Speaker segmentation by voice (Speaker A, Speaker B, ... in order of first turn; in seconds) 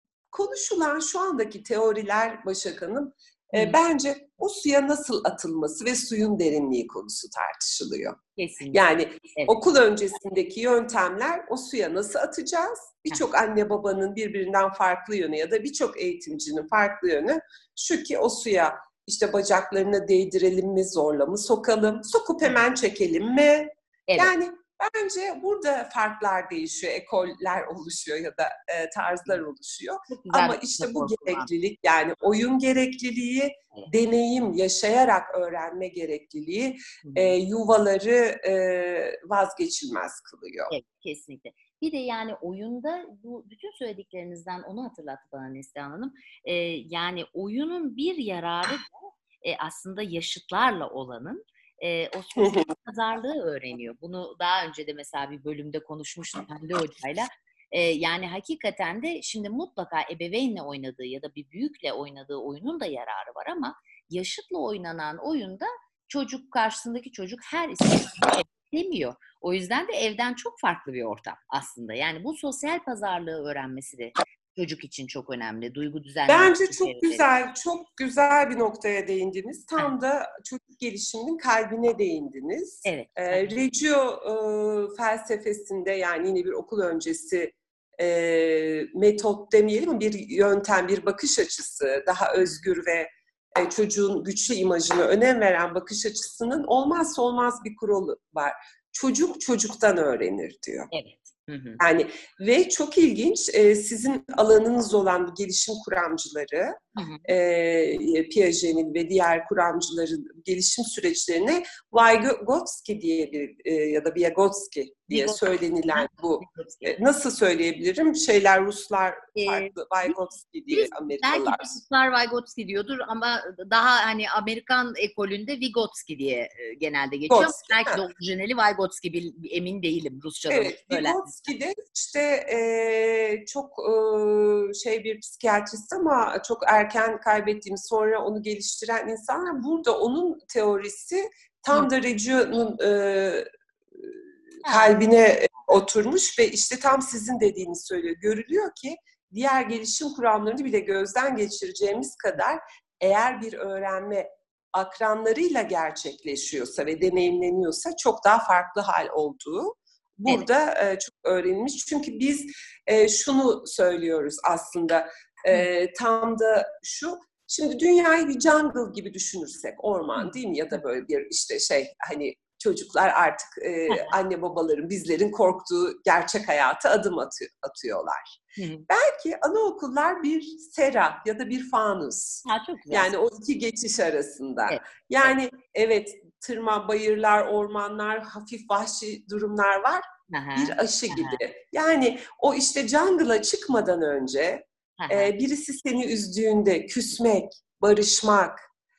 Speaker A: 0.3-8.2, 8.7-40.7, 52.4-52.7, 76.3-100.9, 101.8-121.8, 127.3-128.0, 130.5-178.4, 178.9-198.6
Speaker B: 8.4-8.8, 24.1-24.3, 30.1-31.5, 37.0-37.4, 40.7-77.2, 82.8-83.5, 100.9-101.8, 107.0-107.3, 115.1-117.0, 119.3-120.2, 120.7-131.3, 144.6-144.9, 178.6-178.9, 182.5-183.1, 184.7-185.3, 190.3-191.4, 195.0-195.3